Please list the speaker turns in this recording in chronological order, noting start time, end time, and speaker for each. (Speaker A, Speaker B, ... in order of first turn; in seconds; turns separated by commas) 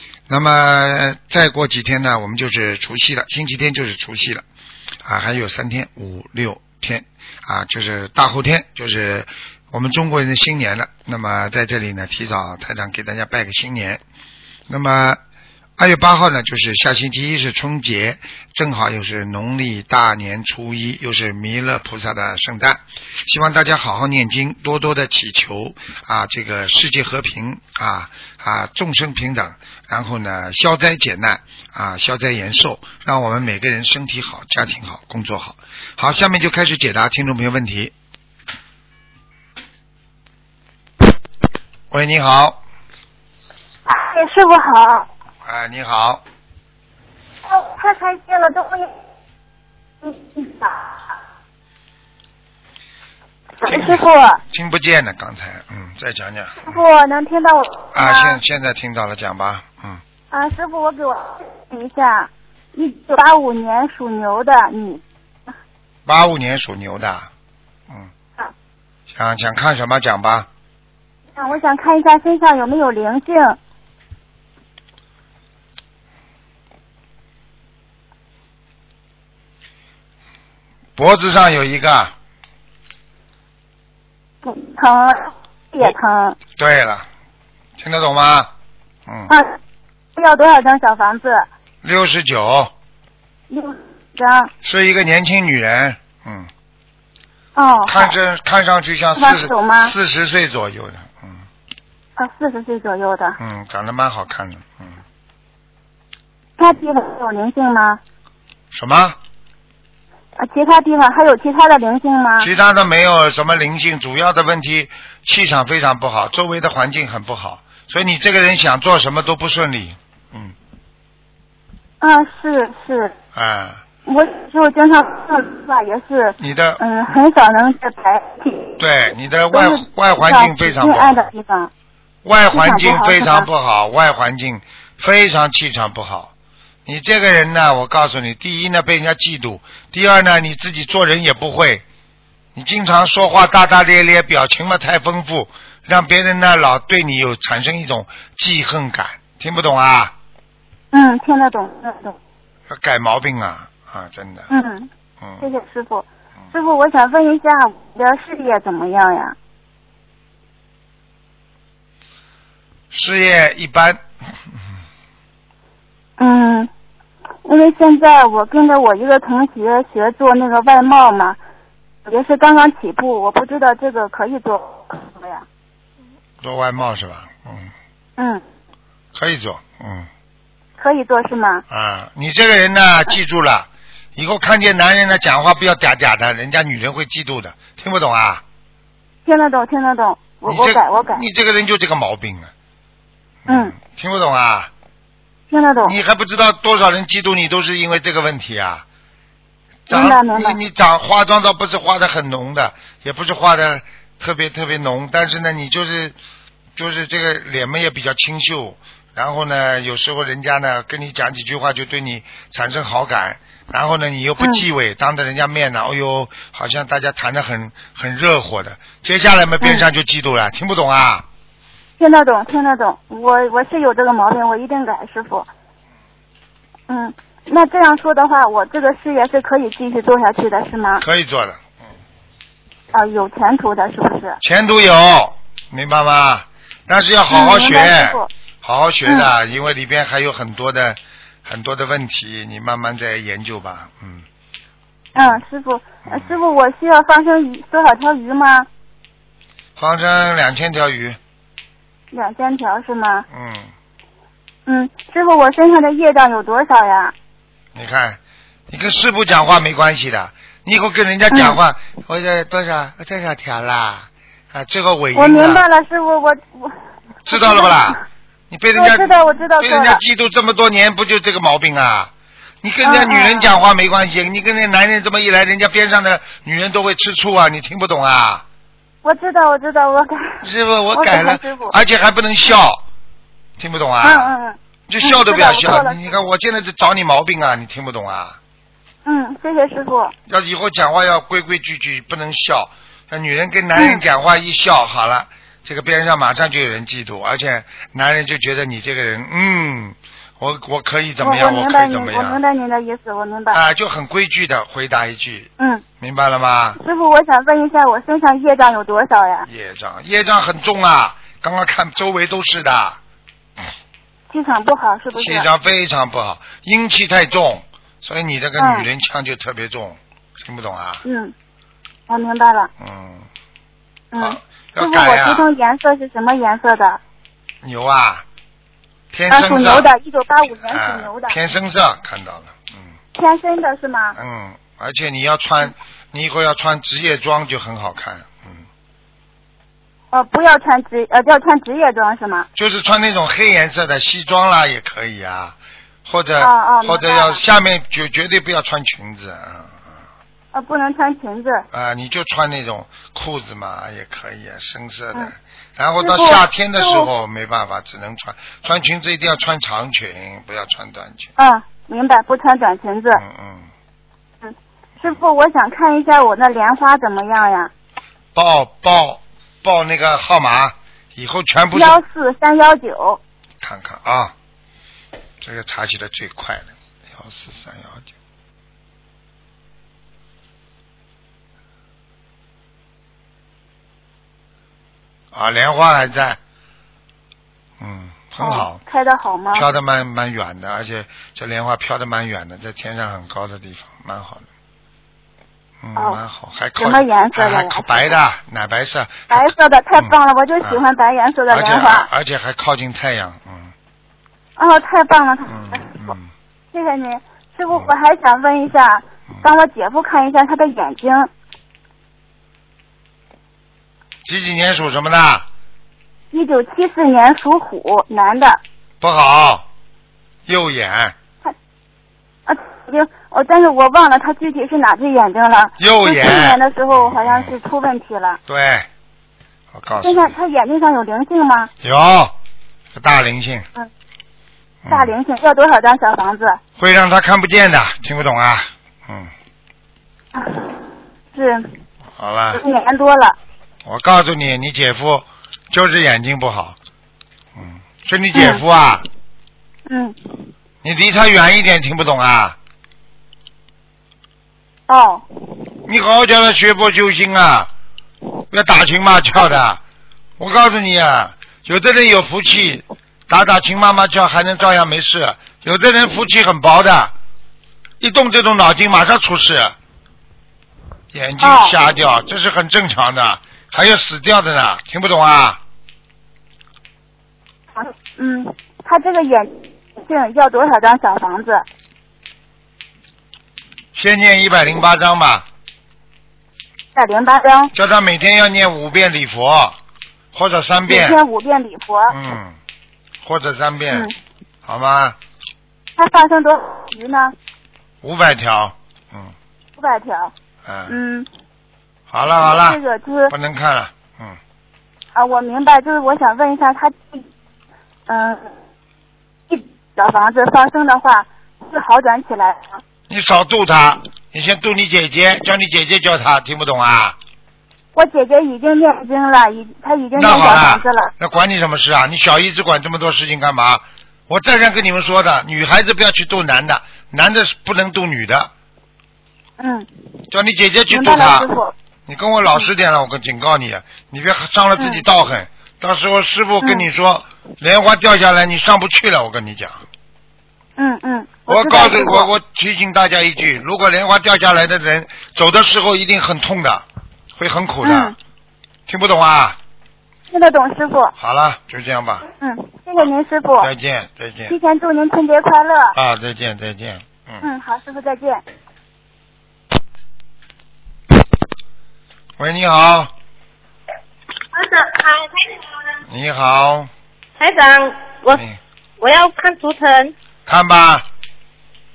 Speaker A: 0.3-4.5, Speaker A: 5.0-14.0, Speaker A: 14.7-15.2, Speaker A: 15.8-37.9, Speaker A: 41.9-42.6, Speaker B: 43.9-45.1, Speaker A: 45.4-46.2, Speaker B: 47.5-48.9, Speaker B: 50.0-51.0, Speaker B: 53.6-54.4, Speaker A: 53.7-56.8, Speaker B: 56.6-58.4, Speaker A: 57.9-60.0, Speaker B: 60.3-65.0, Speaker A: 66.1-67.3, Speaker A: 69.1-70.5, Speaker B: 71.4-73.6, Speaker A: 81.0-82.1, Speaker B: 84.4-86.4, Speaker A: 86.6-87.1, Speaker A: 87.8-88.5, Speaker B: 89.3-89.6, Speaker B: 90.2-91.5, Speaker A: 91.8-92.7, Speaker B: 93.5-94.5, Speaker A: 94.6-96.5, Speaker B: 97.6-98.2, Speaker A: 97.9-101.4, Speaker B: 99.2-99.9, Speaker B: 102.2-103.4, Speaker A: 103.4-105.0, Speaker B: 106.6-108.0, Speaker A: 108.7-109.2, Speaker B: 110.4-112.5, Speaker A: 112.4-120.5, Speaker B: 122.0-123.1, Speaker A: 123.3-123.8, Speaker B: 124.1-128.8, Speaker A: 126.4-126.8, Speaker A: 128.8-131.3, Speaker B: 129.5-131.7, Speaker A: 132.2-136.3, Speaker B: 132.5-133.5, Speaker A: 136.9-141.8, Speaker A: 142.6-150.1, Speaker B: 150.9-152.2, Speaker A: 152.7-154.5, Speaker B: 154.5-154.9, Speaker B: 155.4-159.4, Speaker A: 162.9-164.0, Speaker B: 166.2-166.7, Speaker B: 167.4-171.4, Speaker B: 172.1-175.5, Speaker A: 176.4-177.7, Speaker B: 178.2-178.4, Speaker A: 179.1-180.1, Speaker B: 180.8-181.6, Speaker A: 181.7-188.4, Speaker B: 189.2-191.2, Speaker A: 190.5-192.5, Speaker A: 193.5-194.7, Speaker B: 193.5-193.8, Speaker B: 195.5-195.9, Speaker A: 195.8-198.8, Speaker A: 199.9-206.2, Speaker B: 199.9-200.6, Speaker A: 206.8-221.3, Speaker B: 214.4-214.7, Speaker B: 219.6-219.9, Speaker B: 222.0-225.5, Speaker B: 226.9-231.0, Speaker A: 231.0-231.7, Speaker B: 232.9-234.4, Speaker A: 234.4-244.2, Speaker B: 237.3-238.3, Speaker B: 245.2-248.7, Speaker A: 246.1-246.3, Speaker A: 249.8-251.2, Speaker B: 252.1-253.3, Speaker A: 253.3-253.7, Speaker B: 254.7-257.1, Speaker A: 257.8-265.6, Speaker B: 261.3-261.6, Speaker B: 265.1-266.8, Speaker A: 267.3-268.0, Speaker B: 267.3-268.0, Speaker A: 268.5-272.1, Speaker B: 268.7-270.0, Speaker A: 272.6-278.4, Speaker B: 272.8-273.5, Speaker B: 279.0-281.8, Speaker A: 280.4-282.8, Speaker A: 283.6-284.3, Speaker B: 284.0-286.0, Speaker A: 284.9-288.4, Speaker B: 289.1-290.1, Speaker A: 290.3-302.4, Speaker B: 293.8-294.0, Speaker B: 301.2-303.6, Speaker A: 303.5-305.5, Speaker B: 305.6-305.8, Speaker A: 306.0-306.8, Speaker B: 306.8-309.5, Speaker A: 309.4-313.0, Speaker B: 314.3-315.5, Speaker A: 315.1-321.0, Speaker B: 318.6-318.9, Speaker B: 321.0-321.3, Speaker B: 322.1-322.7, Speaker A: 322.8-323.3, Speaker B: 324.1-327.0, Speaker A: 324.2-325.5, Speaker A: 327.6-328.2, Speaker A: 329.1-329.9, Speaker B: 329.3-331.4, Speaker A: 330.6-333.0, Speaker B: 333.1-334.2, Speaker A: 334.1-338.7, Speaker B: 340.1-342.5, Speaker A: 342.6-349.9, Speaker B: 346.4-347.4, Speaker B: 350.5-351.6, Speaker A: 351.7-361.3, Speaker B: 356.0-357.1, Speaker B: 361.4-363.2, Speaker A: 363.1-363.7, Speaker B: 364.4-367.7, Speaker A: 368.4-372.0, Speaker B: 371.7-373.2, Speaker A: 373.6-374.3, Speaker A: 375.4-378.1, Speaker A: 385.3-386.4, Speaker A: 387.8-388.8, Speaker B: 388.4-389.7, Speaker A: 389.6-394.5, Speaker A: 395.8-400.8, Speaker B: 396.8-398.2, Speaker B: 399.3-402.1, Speaker A: 401.5-403.7, Speaker B: 404.6-406.1, Speaker A: 405.5-406.3, Speaker B: 406.7-411.3, Speaker A: 414.2-415.5, Speaker B: 416.3-418.6, Speaker A: 419.0-419.7, Speaker A: 420.5-421.1, Speaker B: 422.5-428.4, Speaker A: 425.8-427.5, Speaker A: 428.5-428.9, Speaker A: 429.7-430.4, Speaker B: 430.0-431.7, Speaker A: 431.8-432.3, Speaker A: 432.9-433.7, Speaker A: 434.8-435.1, Speaker B: 434.9-436.6, Speaker A: 436.8-439.3, Speaker B: 440.3-440.8, Speaker B: 441.3-441.7, Speaker A: 442.2-442.6, Speaker B: 442.5-443.4, Speaker A: 443.9-446.8, Speaker A: 447.6-449.1, Speaker B: 448.3-448.6, Speaker B: 449.9-450.2, Speaker A: 450.8-452.6, Speaker B: 454.9-455.2, Speaker A: 455.9-457.7, Speaker A: 458.5-459.8, Speaker A: 460.4-467.1, Speaker A: 468.0-469.8, Speaker A: 471.1-475.6, Speaker B: 471.4-471.8, Speaker B: 477.8-481.6, Speaker A: 483.9-485.5, Speaker B: 486.9-487.7, Speaker A: 487.7-489.8, Speaker A: 490.3-491.2, Speaker B: 490.9-492.2, Speaker A: 492.1-492.6, Speaker A: 493.2-494.1, Speaker A: 494.6-495.2, Speaker B: 496.0-497.4, Speaker A: 498.0-499.3, Speaker B: 499.8-500.3, Speaker A: 500.6-500.9, Speaker B: 500.9-501.3, Speaker A: 502.1-504.4, Speaker B: 502.5-503.3, Speaker B: 505.1-507.2, Speaker B: 508.1-508.5, Speaker B: 509.5-512.8, Speaker A: 513.1-517.2, Speaker B: 518.0-521.1, Speaker A: 520.2-528.5, Speaker B: 529.6-529.9, Speaker A: 530.3-531.5, Speaker B: 530.9-531.7, Speaker A: 532.1-539.8, Speaker B: 534.8-535.0, Speaker B: 540.8-542.3, Speaker A: 541.5-548.1, Speaker B: 547.8-548.2, Speaker A: 548.9-549.6, Speaker B: 550.3-551.1, Speaker A: 551.2-552.2, Speaker B: 552.4-553.7, Speaker A: 553.6-554.6, Speaker B: 554.5-556.0, Speaker A: 556.0-557.5, Speaker B: 557.4-558.4, Speaker A: 562.4-563.1, Speaker C: 564.5-565.7, Speaker A: 566.1-566.9, Speaker C: 567.4-568.4, Speaker A: 568.3-568.6, Speaker C: 569.0-570.1, Speaker A: 570.5-571.0